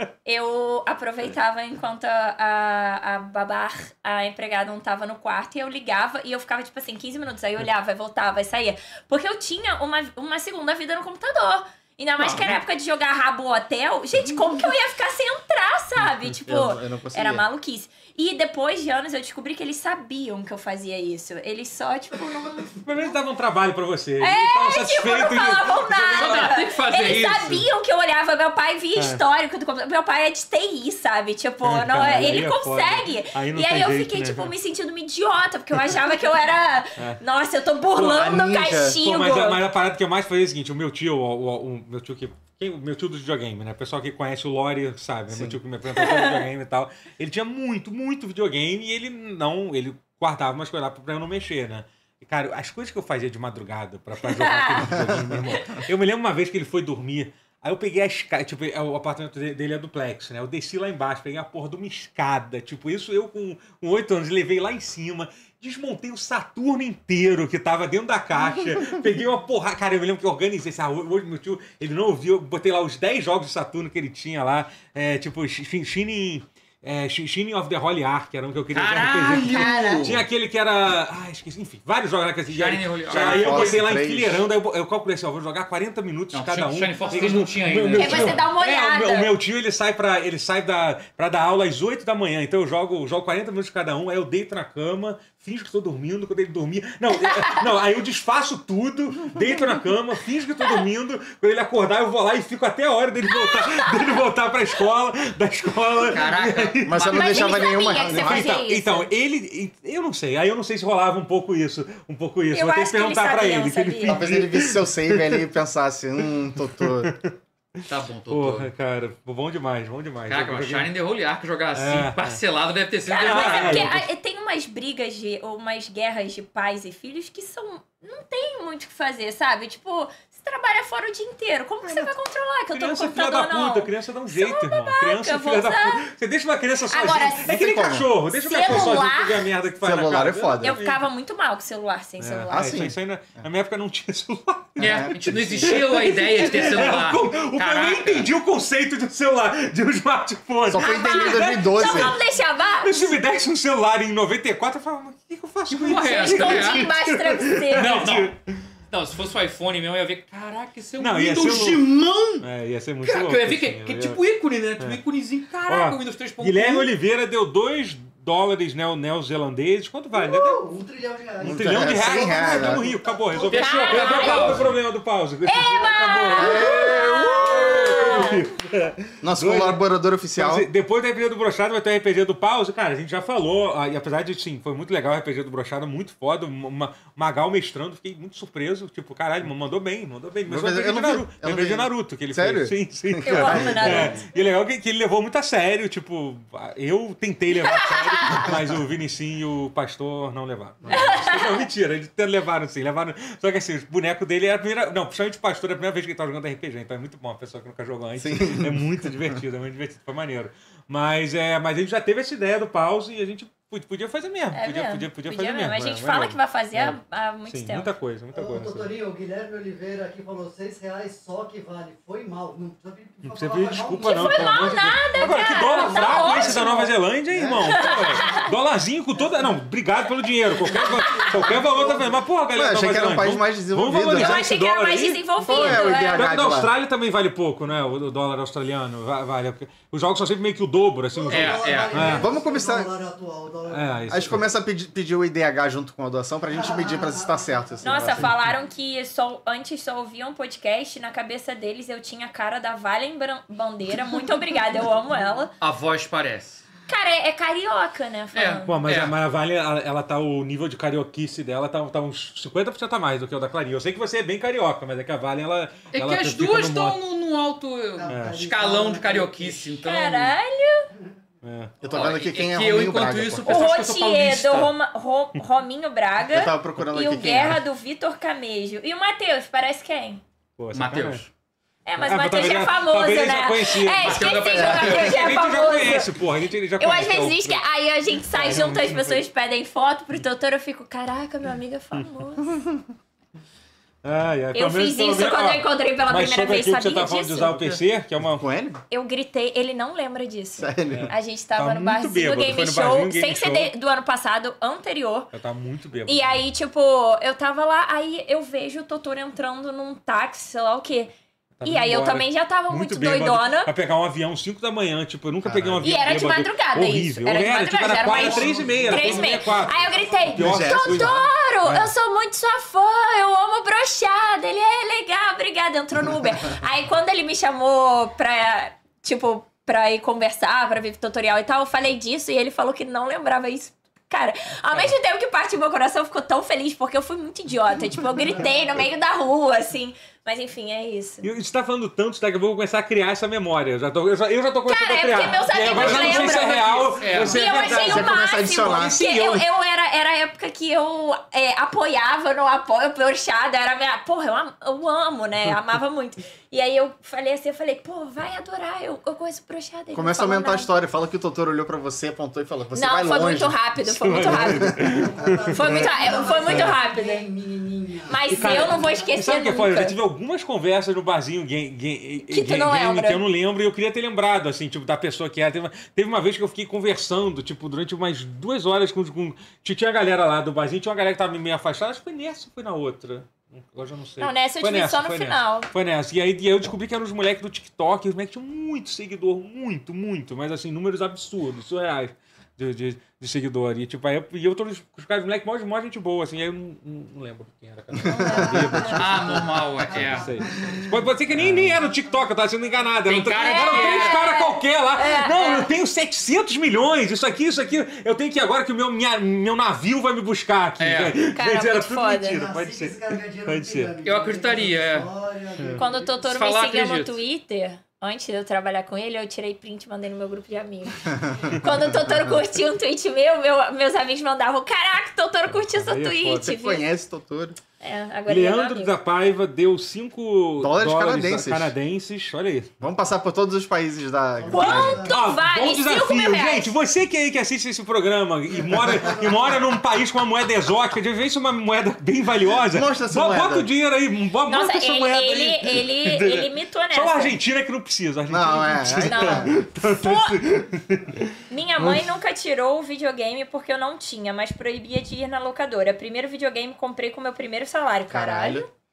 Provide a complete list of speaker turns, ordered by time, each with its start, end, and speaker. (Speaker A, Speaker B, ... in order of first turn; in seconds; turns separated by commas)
Speaker A: 0.2-23.1, Speaker B: 12.2-12.6, Speaker C: 16.4-17.4, Speaker D: 22.7-26.5, Speaker A: 24.2-39.6, Speaker B: 26.1-27.7, Speaker D: 28.9-29.2, Speaker D: 31.6-34.5, Speaker C: 38.0-39.0, Speaker D: 38.9-115.5, Speaker C: 45.3-45.6, Speaker A: 45.9-46.4, Speaker A: 54.2-55.2, Speaker B: 78.7-80.2, Speaker A: 79.3-80.2, Speaker B: 82.5-83.9, Speaker C: 83.1-84.4, Speaker B: 86.3-88.4, Speaker E: 87.0-87.5, Speaker A: 87.9-89.3, Speaker A: 97.1-97.7, Speaker A: 103.3-104.2, Speaker B: 106.0-107.8, Speaker C: 106.8-108.5, Speaker A: 107.0-109.1, Speaker A: 112.5-114.3, Speaker C: 114.0-117.1, Speaker D: 116.8-120.9, Speaker B: 117.9-118.7, Speaker B: 120.3-123.9, Speaker D: 121.7-122.4, Speaker A: 123.1-136.1, Speaker D: 123.1-124.0, Speaker D: 131.8-132.1, Speaker D: 132.7-141.0, Speaker A: 136.9-137.5, Speaker C: 137.4-139.0, Speaker A: 138.3-139.5, Speaker C: 139.8-140.8, Speaker A: 140.6-142.8, Speaker D: 142.2-152.2, Speaker C: 142.5-142.9, Speaker C: 144.8-145.9, Speaker B: 144.8-148.3, Speaker C: 150.7-152.2, Speaker A: 150.7-153.2, Speaker D: 152.8-158.7, Speaker B: 155.7-156.8, Speaker A: 156.0-158.1, Speaker B: 157.7-158.3, Speaker B: 158.9-162.4, Speaker D: 161.0-164.2, Speaker B: 163.0-166.9, Speaker D: 165.7-170.6, Speaker E: 170.1-173.6, Speaker D: 171.4-179.8, Speaker C: 171.4-172.8, Speaker B: 173.4-174.8, Speaker A: 173.5-174.7, Speaker A: 175.4-178.4, Speaker C: 176.3-178.1, Speaker C: 179.2-180.7, Speaker D: 180.3-218.9, Speaker C: 190.5-194.3, Speaker A: 193.2-194.2, Speaker A: 197.6-198.5, Speaker C: 200.8-201.2, Speaker A: 200.9-201.6, Speaker C: 208.2-209.3, Speaker A: 214.5-217.9, Speaker E: 218.3-226.7, Speaker D: 223.2-242.3, Speaker A: 224.0-226.9, Speaker C: 227.3-227.8, Speaker A: 227.7-228.5, Speaker E: 229.2-229.7, Speaker E: 230.6-232.2, Speaker A: 230.7-231.4, Speaker C: 232.5-234.4, Speaker A: 234.1-236.4, Speaker C: 235.4-236.7, Speaker E: 241.1-244.3, Speaker B: 241.3-242.2, Speaker C: 242.0-242.9, Speaker D: 243.7-244.4, Speaker C: 244.1-248.3, Speaker E: 246.6-248.1, Speaker A: 247.8-255.5, Speaker B: 255.6-256.6, Speaker A: 256.9-258.8, Speaker B: 258.3-259.1, Speaker D: 258.6-267.0, Speaker B: 265.9-270.3, Speaker E: 268.0-269.8, Speaker D: 268.1-268.4, Speaker A: 269.8-270.9, Speaker D: 271.4-271.8, Speaker C: 271.8-273.6, Speaker B: 271.8-274.7, Speaker A: 273.4-280.2, Speaker C: 276.3-277.6, Speaker D: 280.6-281.3, Speaker B: 280.7-281.3, Speaker A: 281.8-286.1, Speaker D: 282.0-287.6, Speaker B: 284.0-285.6, Speaker A: 286.8-292.5, Speaker D: 288.3-289.2, Speaker D: 294.0-298.5, Speaker A: 294.5-297.8, Speaker C: 298.2-298.8, Speaker A: 298.9-305.3, Speaker C: 300.6-301.1, Speaker D: 300.9-303.7, Speaker D: 305.3-306.4, Speaker A: 306.1-311.1, Speaker D: 311.6-321.9, Speaker A: 311.6-313.7, Speaker C: 315.4-316.0, Speaker A: 315.8-341.3, Speaker E: 318.2-320.1, Speaker C: 320.3-321.3, Speaker D: 334.7-334.9, Speaker E: 338.3-338.6, Speaker D: 341.2-349.5, Speaker A: 344.6-360.7, Speaker B: 345.8-346.1, Speaker B: 347.0-347.6, Speaker C: 347.6-349.0, Speaker C: 359.9-363.6, Speaker A: 362.7-364.8, Speaker D: 363.8-366.8, Speaker C: 364.2-365.1, Speaker E: 364.7-369.1, Speaker A: 365.5-367.3, Speaker A: 368.1-370.0, Speaker D: 368.3-413.9, Speaker A: 372.3-373.2, Speaker A: 384.2-385.7, Speaker C: 397.9-398.9, Speaker A: 398.0-398.9, Speaker E: 398.7-402.1, Speaker B: 398.9-400.3, Speaker C: 401.4-401.8, Speaker B: 403.1-404.3, Speaker A: 403.3-405.7, Speaker B: 410.8-411.2, Speaker A: 411.2-412.4, Speaker E: 412.3-416.2, Speaker B: 414.0-415.1, Speaker A: 415.7-426.9, Speaker B: 416.2-417.2, Speaker C: 421.8-422.3, Speaker D: 425.5-426.5, Speaker C: 426.4-427.6, Speaker A: 427.8-428.9, Speaker D: 428.3-432.7, Speaker C: 430.6-431.7, Speaker C: 432.8-435.1, Speaker E: 434.4-435.2, Speaker A: 434.5-436.8, Speaker D: 434.6-451.4, Speaker E: 438.5-439.8, Speaker C: 442.6-443.7, Speaker A: 444.5-447.4, Speaker C: 448.3-449.5, Speaker A: 449.0-450.4, Speaker A: 451.5-458.7, Speaker C: 458.1-458.6